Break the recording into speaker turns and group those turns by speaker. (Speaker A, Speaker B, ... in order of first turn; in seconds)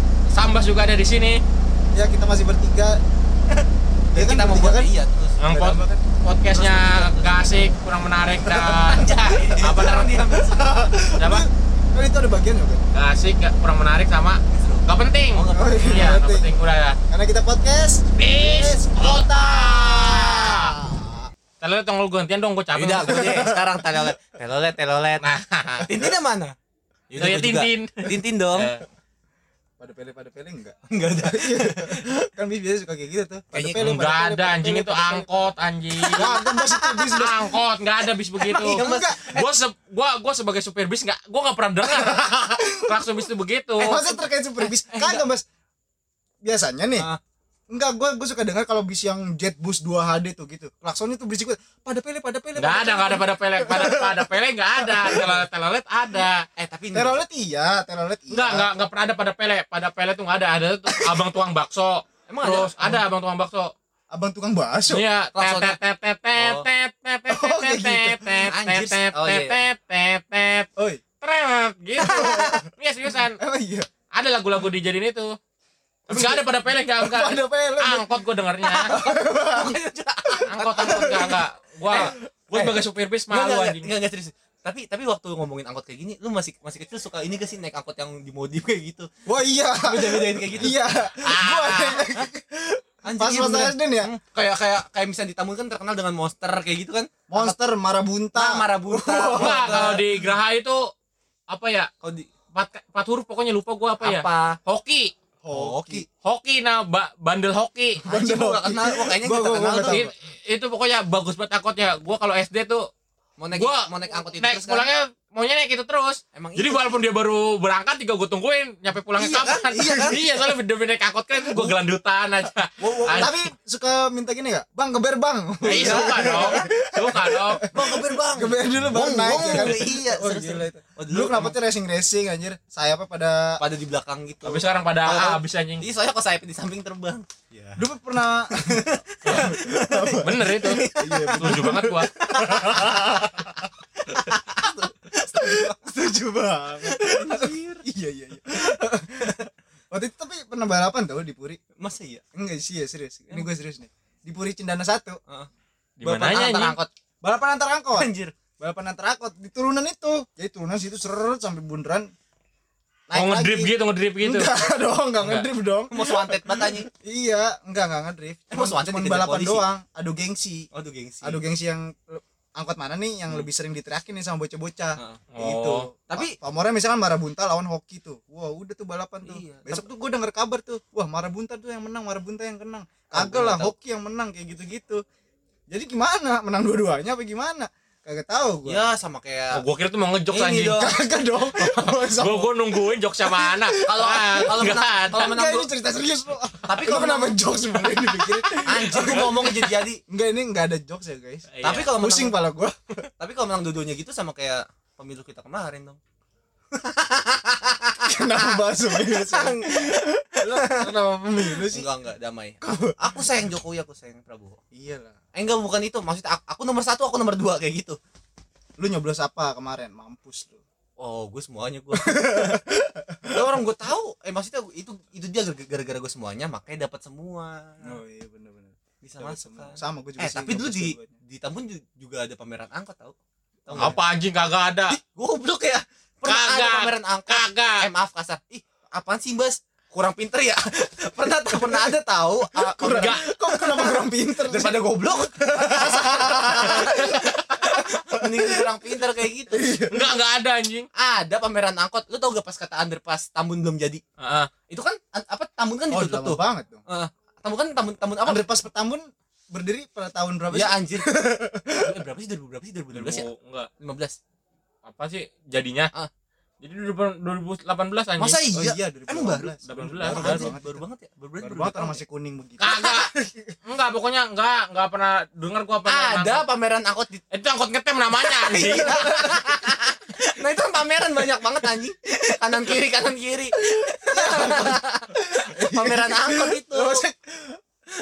Speaker A: 0.3-1.4, 5.4-10.2, 11.2-11.4, 12.9-17.0, 18.2-20.8, 21.6-23.4, 25.2-26.1, 27.2-28.8, 33.8-44.0, 52.5-56.5, 58.3-63.7, 64.9-70.7, 71.2-73.4, 74.1-75.4, 76.1-78.9, 80.5-83.9, 91.2-92.1, 99.3-100.9, 101.5-101.9, 102.5-105.1, 106.2-108.0, 109.8-112.8, 113.5-123.3, 125.7-127.7, 134.4-135.8, 139.2-142.8, 156.0-156.8, 163.1-164.5, 165.2-165.4, 175.3-175.9, 189.5-190.8, 191.6-195.3, 201.5-201.9, 233.7-235.0, 236.2-237.8, 242.8-243.2, 249.9-250.9, 254.2-254.5, 262.9-263.7, 264.8-265.9, 266.6-268.4, 269.6-270.5, 272.6-273.1, 273.6-276.4, 277.3-279.1
Speaker B: 1.9-3.0, 4.1-4.9, 5.5-6.0, 8.4-9.6, 10.3-12.9, 15.5-16.6, 17.1-21.2, 23.0-24.1, 29.8-35.5, 36.1-37.6, 38.4-39.4, 41.8-45.4, 46.4-47.1, 47.7-55.5, 56.9-58.7, 64.1-65.0, 67.3-68.5, 70.8-71.0, 72.0-73.9, 76.1-76.4, 77.0-78.2, 78.9-82.3, 89.2-94.1, 97.3-100.3, 105.4-106.1, 108.0-110.1, 119.8-120.4, 121.4-121.8, 123.0-133.6, 137.8-151.6, 152.3-155.2, 157.2-162.1, 163.1-170.7, 171.2-185.0, 185.7-188.8, 190.8-194.5, 195.1-202.9, 208.0-211.9, 212.6-213.3, 214.7-215.2, 218.8-220.6, 221.9-223.6, 227.8-231.2, 233.7-234.0, 241.5-250.2, 255.9-256.8, 258.2-262.0, 268.5-270.8, 271.4-273.5, 278.6-279.6, 283.6-287.6
Speaker C: 3.5-5.4, 6.5-7.7, 8.6-10.9, 14.5-16.2, 22.7-25.2, 25.8-26.5, 27.1-28.7, 30.9-32.2, 33.5-33.8, 36.0-36.9, 38.4-39.5, 44.6-45.3, 56.5-57.2, 62.3-63.0, 65.3-65.8, 66.3-66.7, 68.3-69.6, 72.0-72.6, 78.6-89.1, 89.8-90.8, 93.0-97.5, 98.3-99.9, 102.0-102.3, 104.0-104.6, 105.5-106.0, 108.0-110.0, 113.4-114.9, 116.3-116.9, 119.2-120.2, 122.8-123.4, 125.6-126.8, 127.7-131.6, 133.6-137.9, 138.5-143.3, 144.0-145.8, 146.8-147.9, 151.8-152.2, 156.0-156.9, 157.9-158.3, 165.9-166.9, 168.5-169.6, 170.7-171.4, 174.9-175.2, 176.1-176.3, 179.2-179.9, 183.1-183.7, 188.7-189.6, 190.3-191.0, 193.7-195.7, 196.6-200.0, 201.6-202.4, 203.2-206.0, 206.7-214.6, 215.3-218.0, 221.0-222.6, 223.3-227.9, 229.0-234.0, 234.9-249.7, 250.9-254.0, 254.7-258.5, 260.5-261.1, 261.8-263.3, 263.8-264.2, 268.2-272.0, 272.6-272.9, 275.9-277.2, 278.2-287.1